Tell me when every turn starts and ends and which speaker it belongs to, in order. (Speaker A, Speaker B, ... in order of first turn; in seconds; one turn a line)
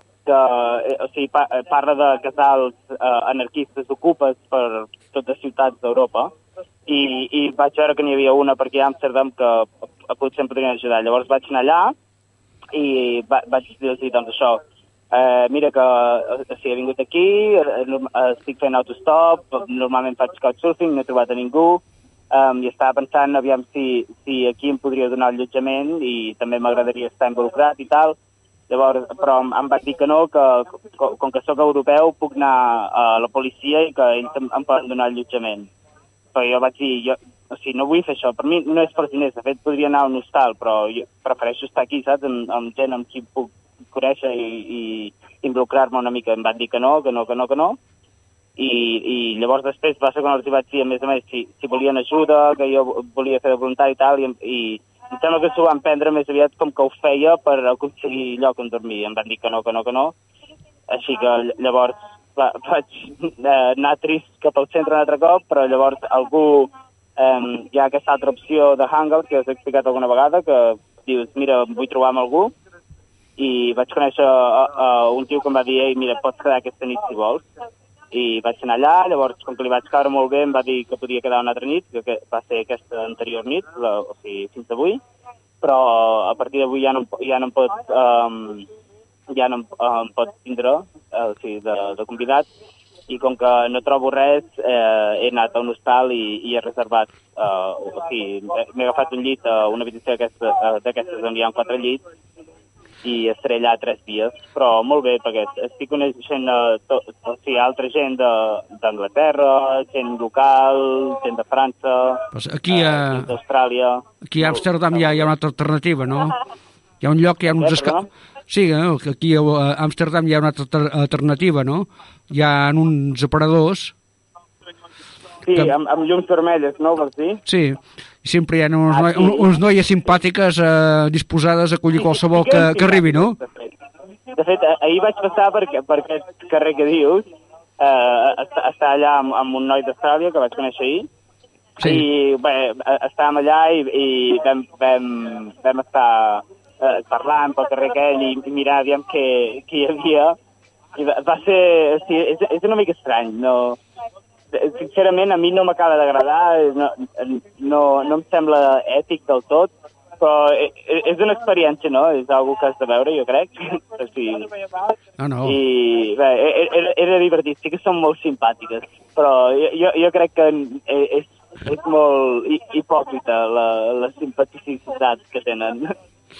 Speaker A: 0.2-6.3
Speaker A: 6.9-11.9
Speaker A: 12.7-28.1
Speaker A: 28.7-35.7
Speaker A: 36.3-47.8
Speaker A: 48.6-60.1
Speaker A: 60.9-72.5
Speaker A: 73.4-77.5
Speaker A: 78.1-85.0
Speaker A: 85.6-88.7
Speaker A: 89.3-92.5
Speaker A: 93.1-102.0
Speaker A: 103.0-114.6
Speaker B: 112.3-113.3
Speaker B: 114.3-116.4
Speaker B: 117.0-118.0
Speaker A: 117.6-118.0
Speaker B: 118.5-123.9
Speaker A: 125.5-127.4
Speaker B: 127.5-133.4
Speaker A: 128.9-129.5
Speaker A: 132.1-133.7
Speaker A: 134.3-137.2
Speaker A: 137.8-141.1
Speaker B: 141.8-142.1
Speaker A: 141.8-150.4
Speaker A: 150.9-153.8
Speaker A: 154.5-164.6
Speaker B: 165.2-165.6
Speaker A: 165.4-175.9